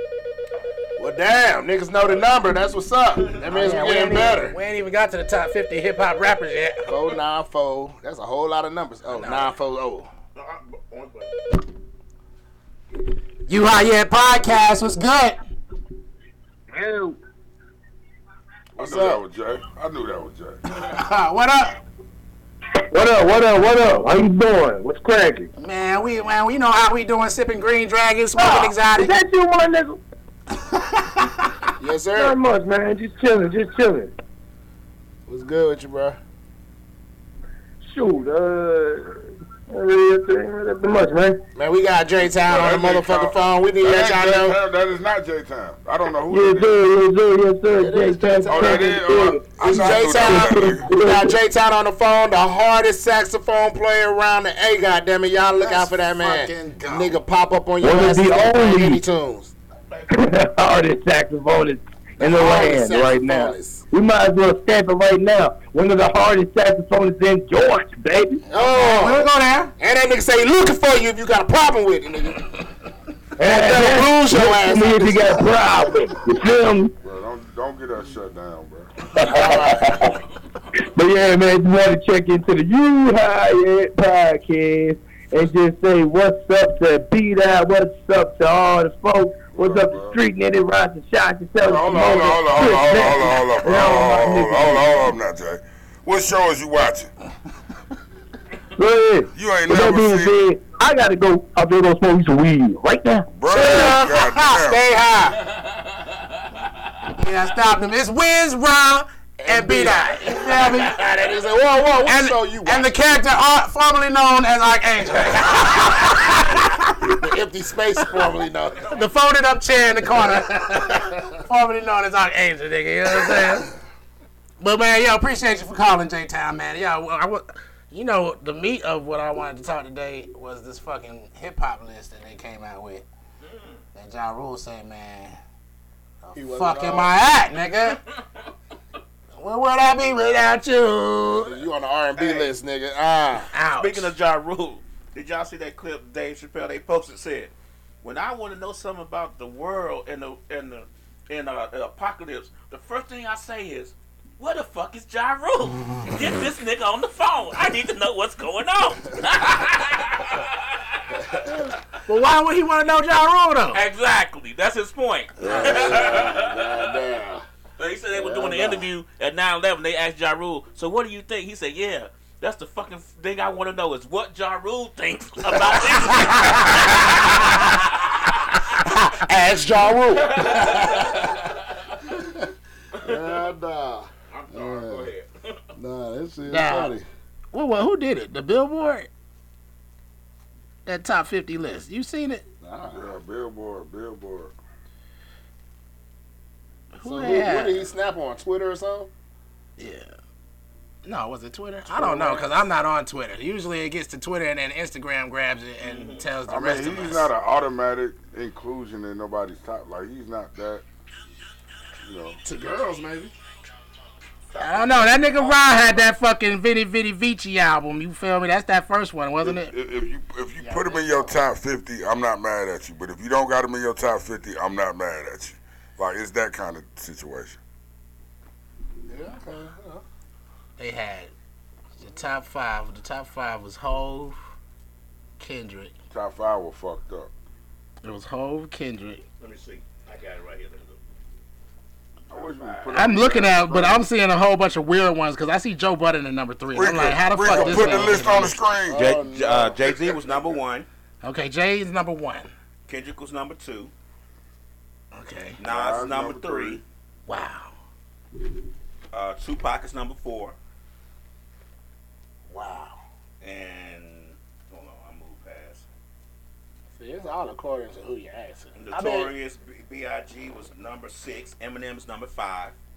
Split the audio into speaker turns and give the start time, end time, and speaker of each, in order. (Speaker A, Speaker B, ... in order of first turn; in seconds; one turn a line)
Speaker A: 1.0-4.5
Speaker B: 3.5-6.9
Speaker A: 6.9-10.1
Speaker B: 9.1-9.5
Speaker C: 10.3-11.6
Speaker B: 13.5-15.4
Speaker D: 16.7-17.2
Speaker E: 18.8-20.6
Speaker A: 18.8-19.2
Speaker B: 20.8-21.8
Speaker D: 22.9-25.5
Speaker B: 25.6-29.2
Speaker D: 28.4-30.0
Speaker A: 31.8-32.4
Speaker D: 32.1-34.1
Speaker A: 35.3-36.2
Speaker D: 37.8-39.1
Speaker D: 39.7-41.4
Speaker A: 41.5-44.6
Speaker E: 42.2-46.8
Speaker D: 46.3-51.4
Speaker A: 47.8-49.0
Speaker E: 48.5-50.9
Speaker A: 49.6-59.5
Speaker B: 55.5-57.1
Speaker D: 57.8-59.0
Speaker D: 60.1-68.4
Speaker A: 62.2-63.8
Speaker A: 68.5-69.3
Speaker B: 68.7-69.7
Speaker A: 69.8-72.7
Speaker D: 73.4-76.9
Speaker A: 73.4-75.6
Speaker E: 77.0-78.9
Speaker D: 79.2-80.2
Speaker A: 79.2-80.1
Speaker D: 80.9-95.1
Speaker E: 89.5-90.2
Speaker E: 91.6-97.1
Speaker D: 98.8-103.3
Speaker E: 99.3-100.4
Speaker E: 103.3-104.8
Speaker B: 103.5-105.4
Speaker B: 107.2-111.0
Speaker A: 109.4-112.9
Speaker B: 112.0-117.0
Speaker A: 117.0-119.0
Speaker B: 118.9-123.7
Speaker A: 120.6-121.3
Speaker B: 124.6-133.0
Speaker C: 133.4-133.8
Speaker B: 133.9-135.4
Speaker B: 136.2-138.0
Speaker A: 136.3-137.1
Speaker B: 139.4-141.6
Speaker A: 141.4-143.5
Speaker C: 142.2-142.5
Speaker B: 143.5-144.1
Speaker C: 143.8-161.5
Speaker B: 161.5-163.8
Speaker C: 163.7-166.9
Speaker A: 165.4-167.4
Speaker E: 165.4-166.1
Speaker C: 167.8-177.7
Speaker A: 168.1-168.8
Speaker A: 175.5-177.7
Speaker A: 178.6-182.5
Speaker C: 180.2-181.4
Speaker C: 183.0-183.4
Speaker A: 183.0-185.1
Speaker C: 184.3-185.6
Speaker A: 185.8-187.1
Speaker B: 186.5-186.9
Speaker B: 187.5-189.1
Speaker B: 190.8-192.4
Speaker A: 192.6-193.2
Speaker E: 192.9-194.5
Speaker B: 196.9-197.9
Speaker A: 197.0-199.1
Speaker B: 199.8-200.1
Speaker B: 201.0-207.3
Speaker A: 201.9-202.6
Speaker C: 205.8-206.2
Speaker E: 206.5-210.8
Speaker E: 212.0-212.4
Speaker A: 212.4-213.3
Speaker C: 214.5-216.1
Speaker B: 214.6-219.7
Speaker E: 219.4-227.6
Speaker A: 220.6-221.3
Speaker A: 229.1-230.0
Speaker B: 230.8-231.3
Speaker B: 232.0-234.3
Speaker B: 235.4-235.9
Speaker E: 236.1-237.3
Speaker B: 238.0-239.2
Speaker C: 239.4-241.0
Speaker E: 242.3-244.0
Speaker C: 242.3-242.9
Speaker B: 242.9-248.6
Speaker E: 246.7-249.1
Speaker A: 247.4-248.2
Speaker A: 248.9-249.8
Speaker C: 248.9-250.9
Speaker B: 251.2-252.5
Speaker C: 252.9-253.9
Speaker B: 255.1-255.6
Speaker C: 255.6-256.8
Speaker E: 255.6-256.8
Speaker B: 257.3-257.7
Speaker C: 259.1-260.6
Speaker B: 262.5-263.0
Speaker A: 262.6-262.9
Speaker C: 263.4-265.9
Speaker A: 266.9-269.3
Speaker C: 268.8-272.8